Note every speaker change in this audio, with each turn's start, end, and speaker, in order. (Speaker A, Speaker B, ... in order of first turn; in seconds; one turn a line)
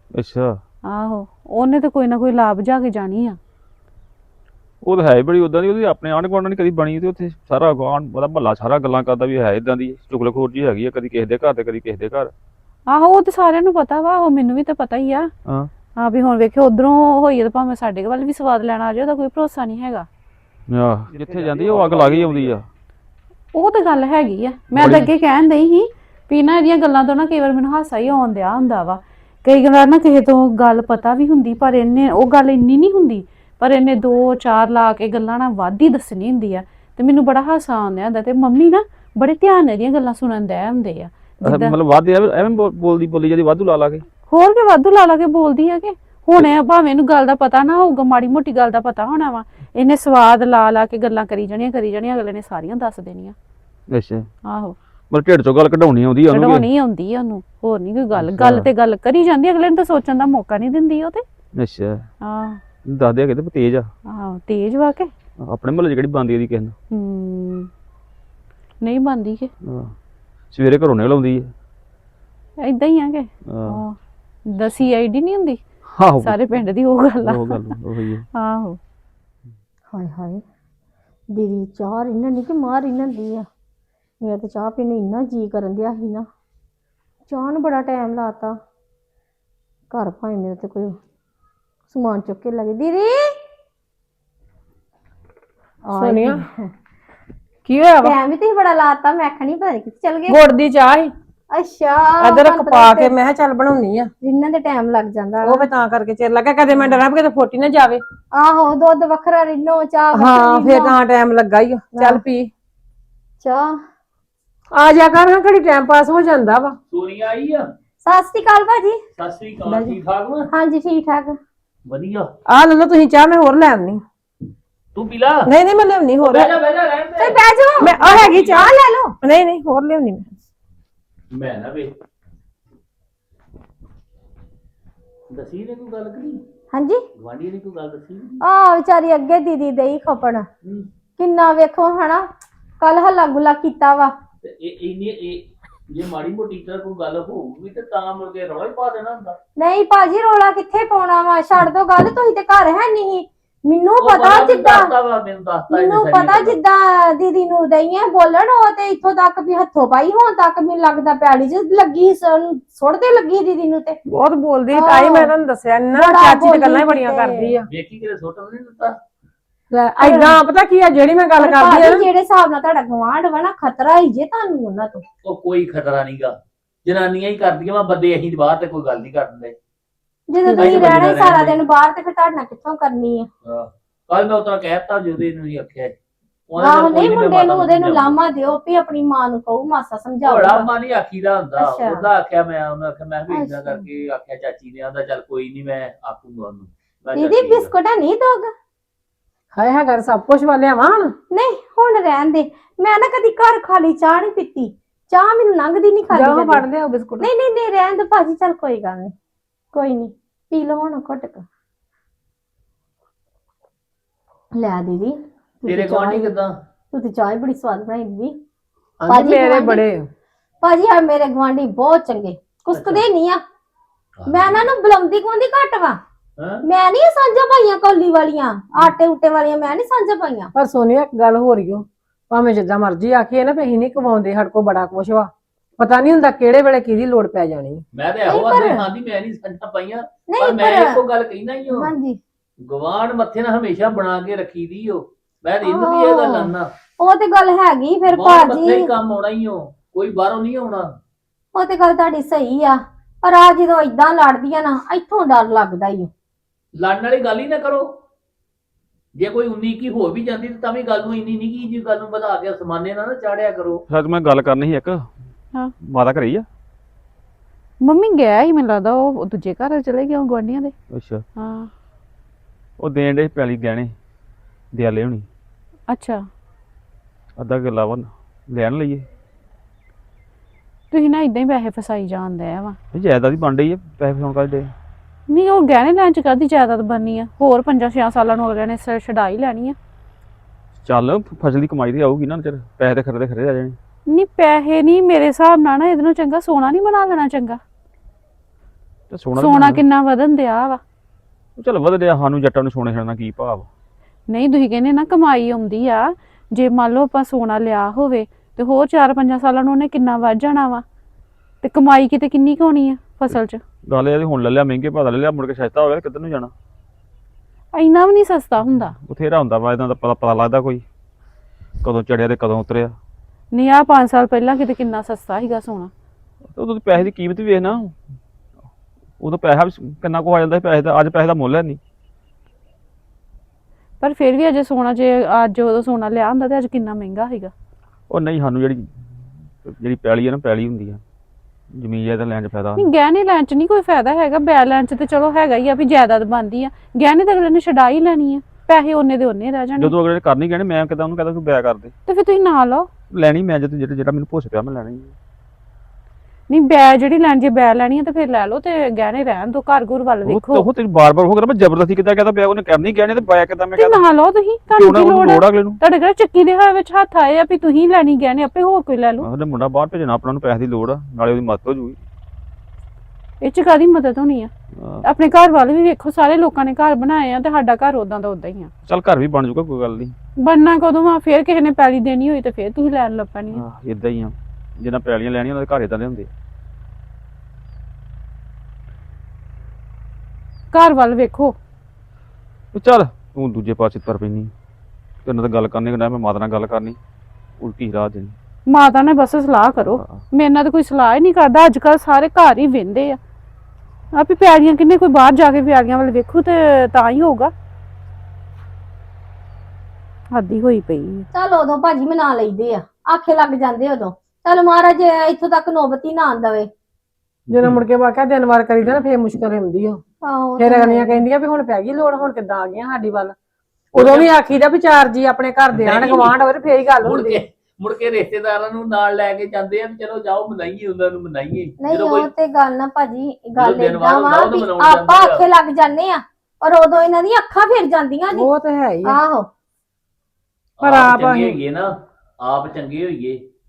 Speaker A: 0.1-0.6
Speaker B: 0.9-3.4
Speaker A: 4.8-12.3
Speaker B: 12.9-15.3
Speaker A: 15.4-15.7
Speaker B: 16.0-20.1
Speaker A: 20.7-22.6
Speaker C: 21.1-22.6
Speaker B: 23.5-41.8
Speaker A: 24.8-25.1
Speaker A: 41.4-44.0
Speaker B: 44.3-53.3
Speaker A: 53.9-54.3
Speaker B: 54.5-54.8
Speaker A: 55.1-56.7
Speaker B: 56.3-61.2
Speaker A: 58.1-58.7
Speaker A: 61.5-62.1
Speaker B: 62.2-62.6
Speaker A: 62.8-63.9
Speaker B: 64.1-65.1
Speaker A: 65.4-66.8
Speaker B: 66.9-67.7
Speaker B: 68.8-69.5
Speaker A: 69.6-69.9
Speaker A: 70.5-71.5
Speaker B: 72.6-74.0
Speaker A: 73.5-73.8
Speaker B: 74.5-75.6
Speaker A: 75.9-76.6
Speaker B: 76.2-77.7
Speaker A: 77.2-78.2
Speaker B: 78.3-78.8
Speaker D: 79.9-80.4
Speaker D: 81.3-83.5
Speaker D: 84.2-86.3
Speaker D: 87.3-88.6
Speaker D: 89.9-91.0
Speaker D: 91.9-93.3
Speaker E: 95.8-96.5
Speaker D: 95.9-96.6
Speaker E: 97.6-98.1
Speaker D: 98.0-100.4
Speaker E: 100.3-101.1
Speaker D: 101.5-103.1
Speaker E: 102.2-104.1
Speaker D: 104.2-105.7
Speaker E: 105.4-108.0
Speaker D: 108.3-111.0
Speaker E: 110.1-112.5
Speaker D: 111.9-112.2
Speaker D: 113.4-113.8
Speaker E: 114.7-116.8
Speaker C: 116.9-117.7
Speaker D: 118.0-119.0
Speaker C: 119.2-120.5
Speaker D: 120.5-121.4
Speaker C: 121.9-122.3
Speaker E: 122.5-124.0
Speaker C: 124.9-125.5
Speaker E: 125.5-126.5
Speaker C: 126.2-128.7
Speaker D: 127.2-129.2
Speaker E: 127.8-130.3
Speaker C: 131.3-131.9
Speaker C: 135.3-136.4
Speaker D: 136.7-137.0
Speaker C: 137.2-138.4
Speaker D: 138.4-140.5
Speaker D: 141.2-142.3
Speaker D: 142.8-144.1
Speaker C: 144.4-149.4
Speaker D: 149.6-154.9
Speaker C: 154.0-156.6
Speaker D: 155.7-164.0
Speaker E: 164.1-167.7
Speaker D: 164.7-165.3
Speaker D: 165.9-167.5
Speaker C: 167.7-168.9
Speaker E: 169.7-172.1
Speaker D: 170.0-170.4
Speaker D: 171.4-175.0
Speaker C: 175.2-179.6
Speaker D: 180.3-183.3
Speaker E: 180.4-181.1
Speaker C: 180.5-181.6
Speaker C: 183.4-185.9
Speaker C: 186.5-188.2
Speaker D: 186.6-190.7
Speaker C: 190.2-197.7
Speaker D: 191.6-192.0
Speaker D: 193.3-193.8
Speaker D: 197.1-198.5
Speaker E: 199.5-201.1
Speaker D: 201.3-206.7
Speaker E: 206.1-207.3
Speaker D: 207.2-209.1
Speaker D: 209.7-211.4
Speaker D: 214.5-216.3
Speaker C: 215.7-216.5
Speaker D: 216.9-218.4
Speaker E: 219.0-220.1
Speaker D: 219.1-219.8
Speaker D: 220.6-223.4
Speaker C: 222.7-223.0
Speaker C: 224.2-224.7
Speaker D: 224.3-226.0
Speaker D: 226.6-230.5
Speaker E: 230.5-237.8
Speaker C: 237.9-241.9
Speaker D: 238.3-238.8
Speaker D: 240.3-241.0
Speaker D: 241.7-242.2
Speaker C: 242.6-246.7
Speaker D: 245.6-248.9
Speaker C: 248.1-250.9
Speaker D: 251.5-256.1
Speaker C: 256.8-257.9
Speaker C: 259.2-263.8
Speaker A: 263.9-265.1
Speaker A: 265.8-266.4
Speaker B: 267.8-270.7
Speaker A: 270.9-271.2
Speaker B: 271.4-271.7
Speaker A: 272.8-273.9
Speaker A: 274.7-275.3
Speaker B: 275.9-276.2
Speaker A: 277.4-279.1
Speaker B: 280.9-282.8
Speaker A: 282.9-284.7
Speaker B: 285.3-289.8
Speaker A: 290.8-293.8
Speaker B: 294.1-297.6
Speaker A: 299.1-299.8
Speaker B: 299.4-300.8
Speaker A: 301.6-303.7
Speaker B: 304.3-310.8
Speaker B: 311.6-313.6
Speaker A: 313.9-316.5
Speaker B: 317.7-318.9
Speaker A: 319.0-320.8
Speaker A: 321.8-322.9
Speaker B: 323.5-325.9
Speaker A: 326.5-328.0
Speaker A: 329.2-331.8
Speaker B: 334.0-337.5
Speaker A: 338.1-338.9
Speaker A: 339.6-341.0
Speaker A: 341.7-342.9
Speaker B: 342.8-349.9
Speaker A: 349.8-351.9
Speaker B: 352.1-352.9
Speaker A: 353.1-355.1
Speaker B: 356.5-360.7
Speaker A: 360.2-364.0
Speaker B: 363.8-369.3
Speaker A: 364.7-365.8
Speaker A: 369.2-372.0
Speaker B: 373.4-374.5
Speaker A: 374.8-375.0
Speaker B: 375.0-378.7
Speaker A: 378.9-380.1
Speaker B: 380.4-383.6
Speaker A: 383.5-386.3
Speaker B: 390.7-391.6
Speaker A: 392.7-394.5
Speaker A: 395.2-397.0
Speaker A: 397.6-398.3
Speaker B: 398.7-403.2
Speaker A: 399.8-400.2
Speaker B: 404.1-407.5
Speaker B: 410.3-411.3
Speaker D: 411.3-416.7
Speaker C: 417.5-417.8
Speaker E: 417.5-420.0
Speaker D: 420.2-421.2
Speaker E: 420.6-423.3
Speaker C: 423.9-424.3
Speaker E: 423.9-427.4
Speaker C: 425.7-426.4
Speaker C: 427.0-432.3
Speaker D: 431.8-438.5
Speaker C: 433.6-435.5
Speaker E: 438.3-439.2
Speaker D: 439.0-439.5
Speaker C: 440.8-443.4
Speaker E: 440.8-441.6